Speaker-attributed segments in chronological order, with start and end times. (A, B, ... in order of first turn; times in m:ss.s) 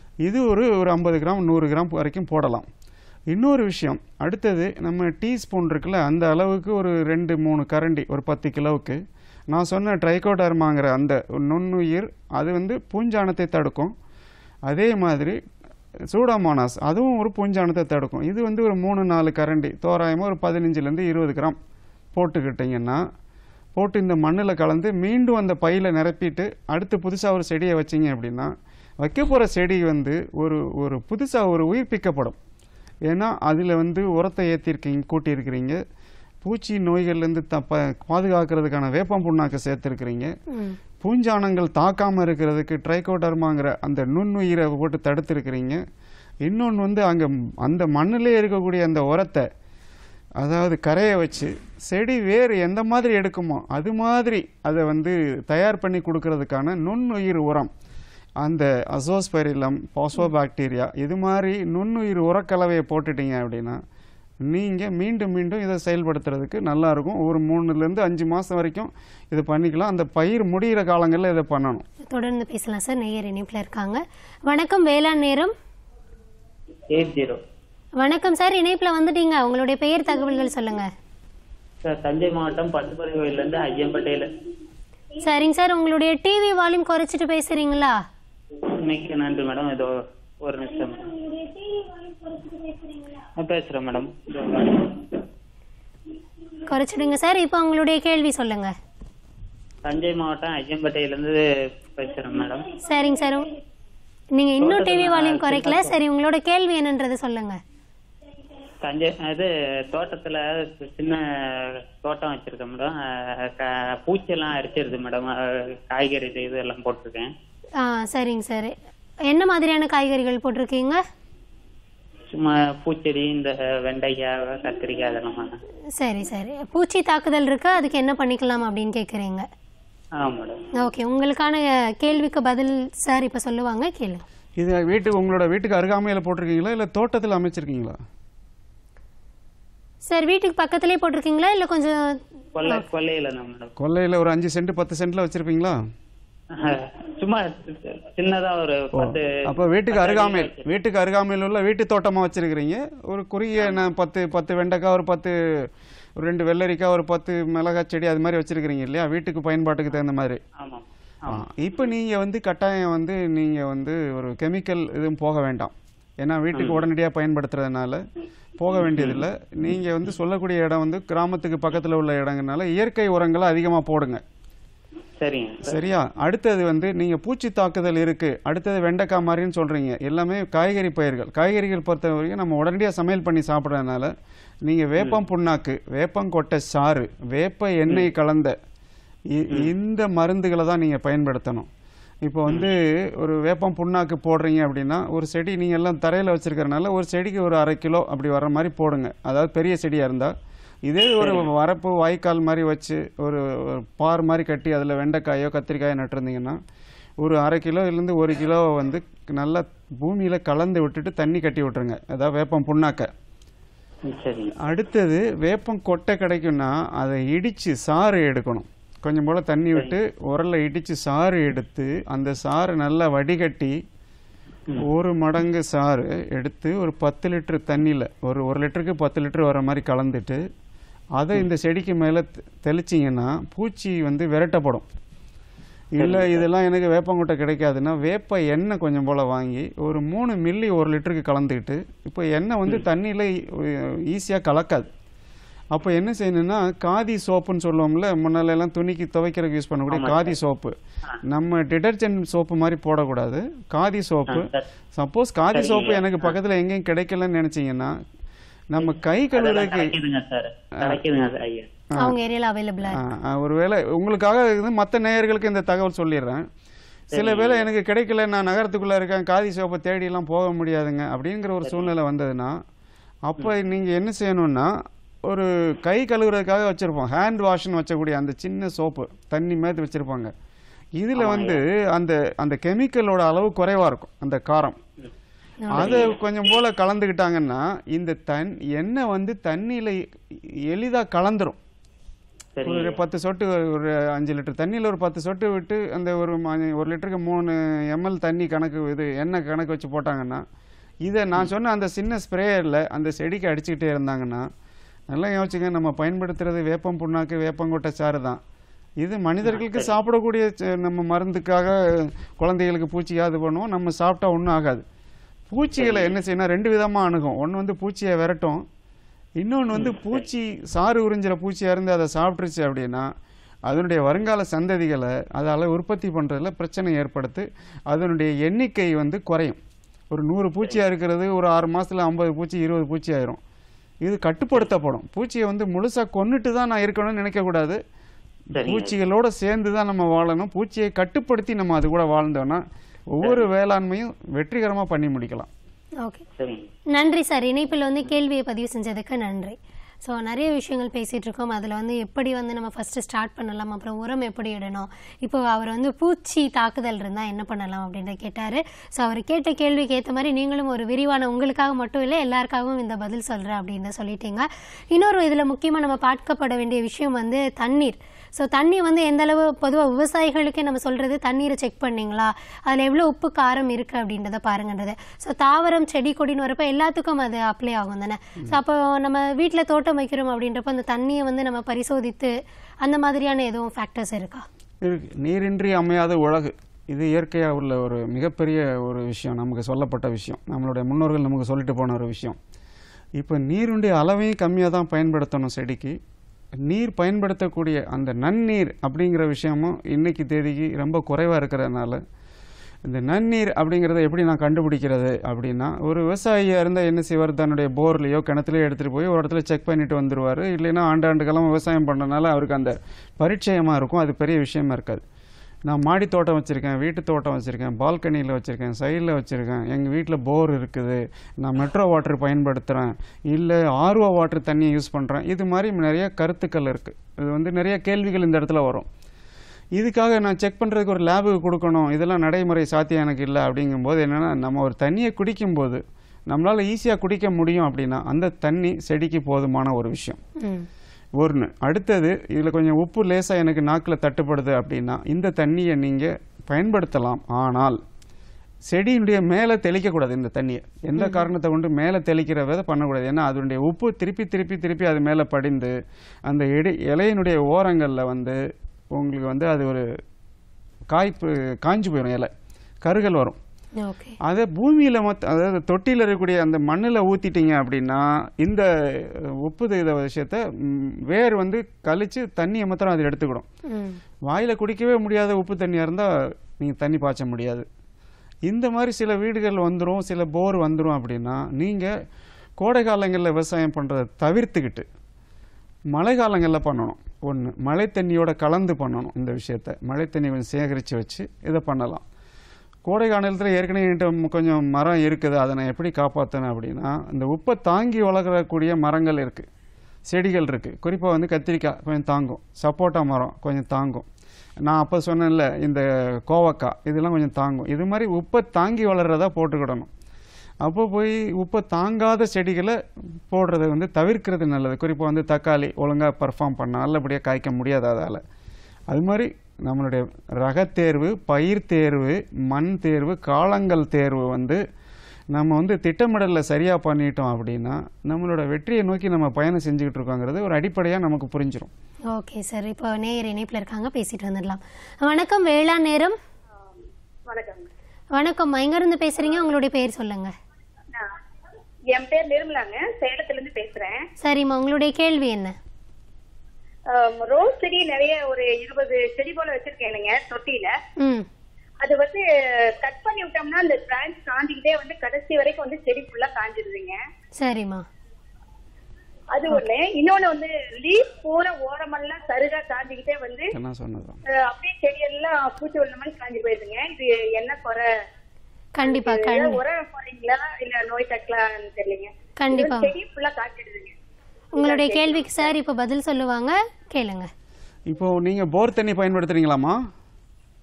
0:00.2-0:02.7 A
0:03.3-0:09.0 A
0:09.5-0:13.9 A
0:14.7-0:15.4 A
0:16.1-0:21.6 A
0:22.2-0:23.0 A
0:23.8-0:32.4 A
0:33.1-0:35.8 A
0:36.4-0:40.3 A
0:41.0-0:45.8 A
0:46.4-0:49.5 A
0:50.4-0:57.7 A
0:58.4-1:03.8 A
1:04.5-1:11.8 A
1:12.1-1:15.5 B
1:16.9-1:17.4 C
1:18.0-1:20.9 B
1:21.8-1:24.3 C
1:25.2-1:28.0 B
1:28.7-1:31.5 C
1:33.4-1:35.2 C
1:36.7-1:38.7 B
1:39.8-1:41.4 C
1:42.0-1:42.7 C
1:42.8-1:43.5 B
1:44.4-1:47.6 B
1:44.6-1:46.0 C
1:48.8-1:57.3 C
1:57.8-1:58.8 B
1:59.3-2:01.0 B
2:02.3-2:05.6 C
2:06.0-2:09.5 B
2:10.2-2:10.6 C
2:10.8-2:14.2 B
2:14.6-2:18.0 A
2:20.1-2:22.8 B
2:22.6-2:23.7 C
2:23.8-2:25.8 A
2:26.5-2:30.6 C
2:28.9-2:35.4 A
2:36.2-2:40.4 A
2:40.6-2:41.4 C
2:41.3-2:48.0 A
2:46.5-2:46.8 C
2:48.6-2:54.2 A
2:48.9-2:49.2 C
2:55.2-2:55.8 C
2:55.6-3:04.1 A
3:04.6-3:08.6 A
3:09.3-3:11.7 A
3:12.2-3:20.3 A
3:20.8-3:26.6 A
3:21.2-3:21.5 C
3:27.2-3:33.1 A
3:34.1-3:34.6 C
3:34.6-3:43.8 A
3:44.8-3:50.4 A
3:51.2-3:54.9 A
3:56.0-4:04.9 A
3:56.0-3:56.5 C
4:05.7-4:10.8 A
4:09.9-4:10.4 C
4:11.3-4:17.9 A
4:14.3-4:14.7 C
4:15.5-4:16.3 C
4:18.7-4:20.0 A
4:18.8-4:21.7 C
4:22.0-4:23.0 B
4:22.9-4:26.4 A
4:27.1-4:27.7 C
4:27.1-4:32.6 A
4:33.3-4:34.7 A
4:35.3-4:40.3 A
4:41.0-4:44.8 A
4:41.2-4:41.6 C
4:45.7-4:45.9 B
4:45.7-4:51.6 A
4:45.8-4:46.2 C
4:52.6-4:53.0 C
4:52.6-5:00.4 A
5:01.0-5:04.5 A
5:05.1-5:08.4 A
5:09.0-5:14.8 A
5:09.4-5:09.9 C
5:15.5-5:18.6 A
5:15.8-5:16.1 C
5:19.4-5:23.1 A
5:19.7-5:20.2 C
5:23.7-5:29.6 A
5:30.1-5:33.4 A
5:34.0-5:37.8 A
5:38.5-5:39.0 C
5:38.6-5:45.5 A
5:46.4-5:46.7 C
5:46.9-6:24.5 B
6:24.8-6:32.4 A
6:33.2-6:36.0 A
6:36.6-6:42.0 A
6:42.9-6:55.0 A
6:55.7-7:08.9 A
7:09.8-7:20.2 A
7:20.4-7:20.7 B
7:21.2-7:27.8 A
7:28.7-7:35.8 A
7:31.0-7:31.3 B
7:36.3-7:38.4 A
7:38.9-7:39.8 A
7:40.9-7:42.3 A
7:42.8-7:43.4 A
7:43.8-7:44.2 B
7:44.2-7:53.4 A
7:53.7-7:54.0 B
7:54.3-7:57.6 A
7:58.5-8:01.9 A
8:02.6-8:04.9 A
8:05.9-8:12.0 A
8:12.9-8:19.5 A
8:20.1-8:24.1 A
8:24.6-8:29.9 A
8:30.6-8:32.8 A
8:33.3-8:38.2 A
8:38.9-8:44.6 A
8:45.3-8:51.7 A
8:52.1-8:56.2 B
8:57.3-8:57.7 D
8:58.2-9:00.3 B
9:01.9-9:04.0 D
9:04.2-9:05.6 B
9:06.9-9:10.7 D
9:11.0-9:11.3 B
9:11.8-9:12.2 D
9:12.8-9:17.0 D
9:17.4-9:17.9 B
9:19.3-9:23.5 D
9:23.5-9:24.2 A
9:24.3-9:27.9 D
9:28.8-9:29.6 B
9:28.8-9:34.0 D
9:32.4-9:32.9 B
9:34.6-9:37.3 B
9:34.6-9:35.5 D
9:37.9-9:39.8 A